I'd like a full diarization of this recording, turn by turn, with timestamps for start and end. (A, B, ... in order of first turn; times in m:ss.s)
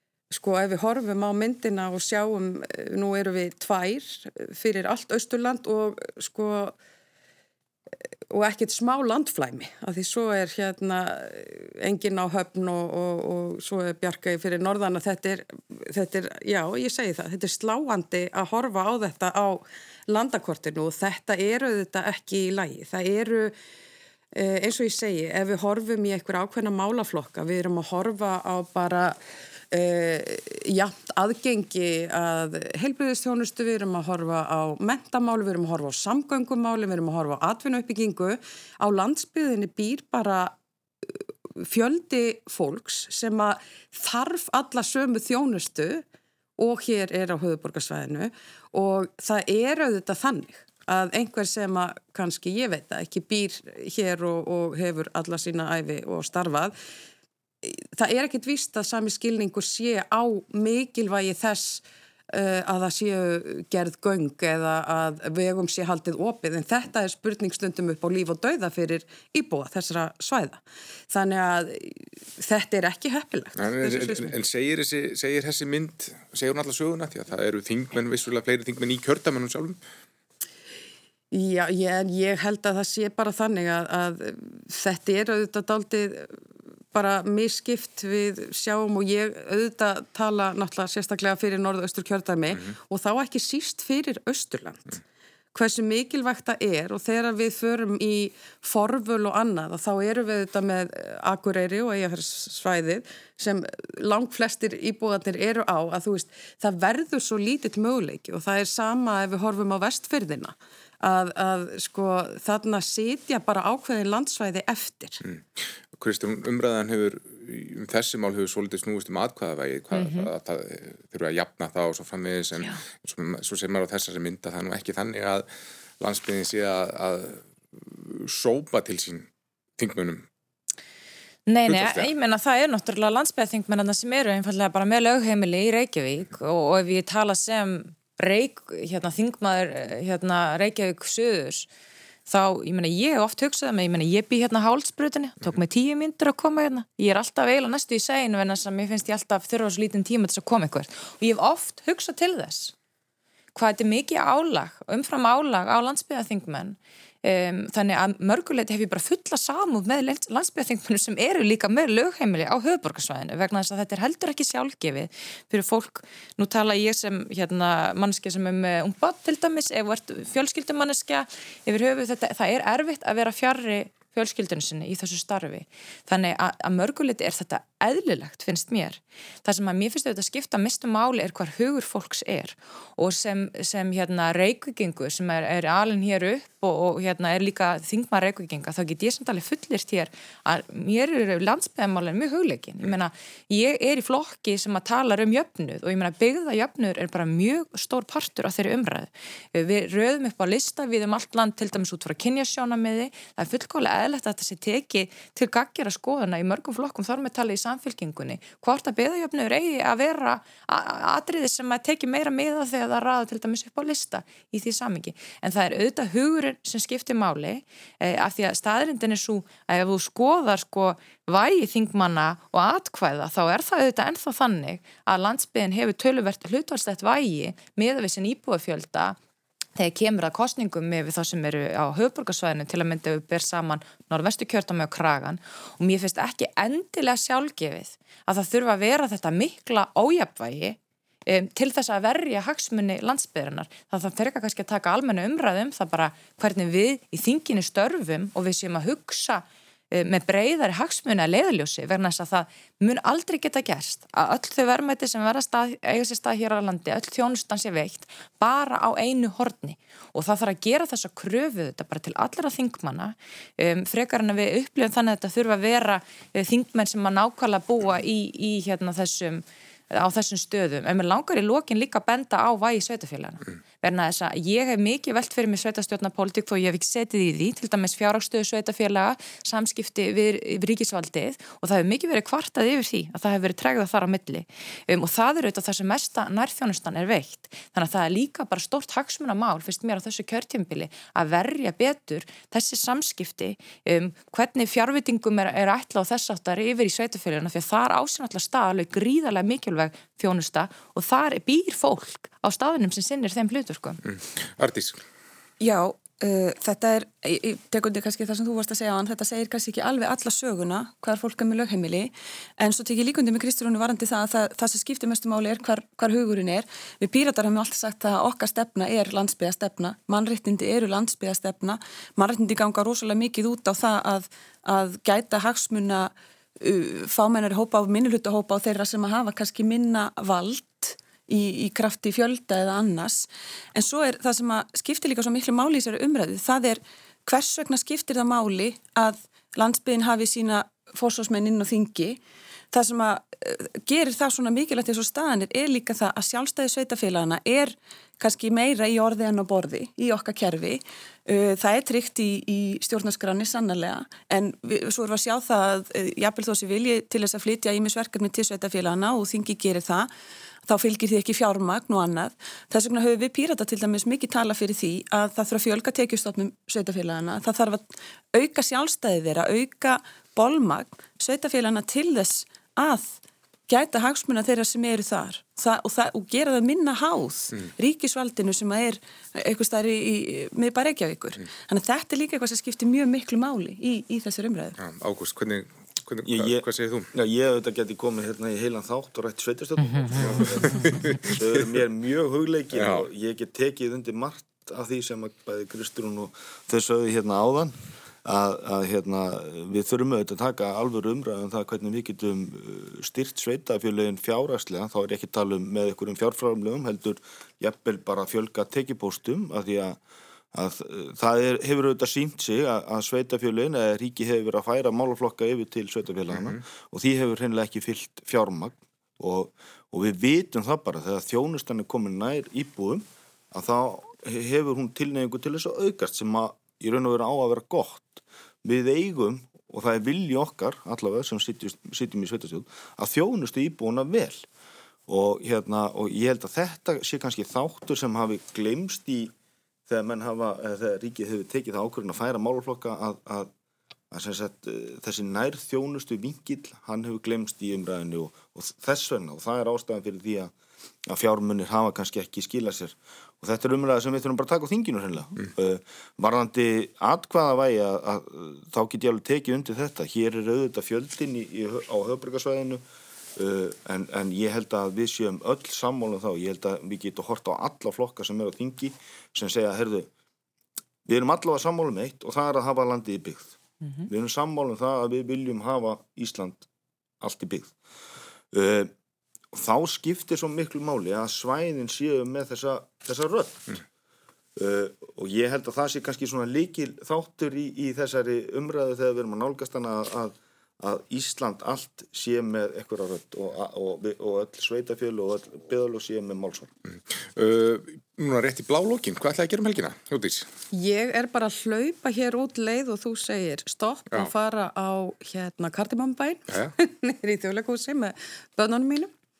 0:00.3-0:06.7 A
0:08.3-0:23.5 A
0:24.3-0:29.2 A
0:29.7-0:40.5 A
0:41.1-0:46.0 A
0:46.6-0:56.7 A
0:57.6-1:10.6 A
1:11.1-1:14.3 A
1:13.6-1:19.8 B
1:21.3-1:26.4 A
1:26.9-1:35.0 A
1:35.5-1:55.2 A
1:55.2-2:05.4 B
1:59.9-2:00.3 C
2:06.0-2:10.2 B
2:11.5-2:21.7 C
2:11.7-2:12.1 B
2:22.3-2:32.7 C
2:33.5-3:49.2 C
3:49.8-5:04.0 C
5:04.0-5:05.0 B
5:05.6-5:42.2 D
5:42.7-6:00.1 D
6:00.6-6:24.8 D
6:24.8-6:27.1 B
6:26.2-6:50.0 E
6:30.2-6:31.4 B
6:32.7-6:33.0 B
6:50.5-7:14.5 E
6:56.3-6:56.6 B
7:15.1-7:19.3 E
7:19.9-7:23.5 E
7:24.1-7:30.5 E
7:31.0-7:42.8 E
7:43.4-7:50.1 E
7:51.0-7:53.5 E
7:54.1-7:56.6 E
7:57.2-7:57.7 E
7:58.5-7:58.9 E
7:59.5-8:03.8 E
8:04.6-8:16.7 E
8:16.9-8:20.4 B
8:20.7-8:29.1 A
8:26.5-8:26.7 B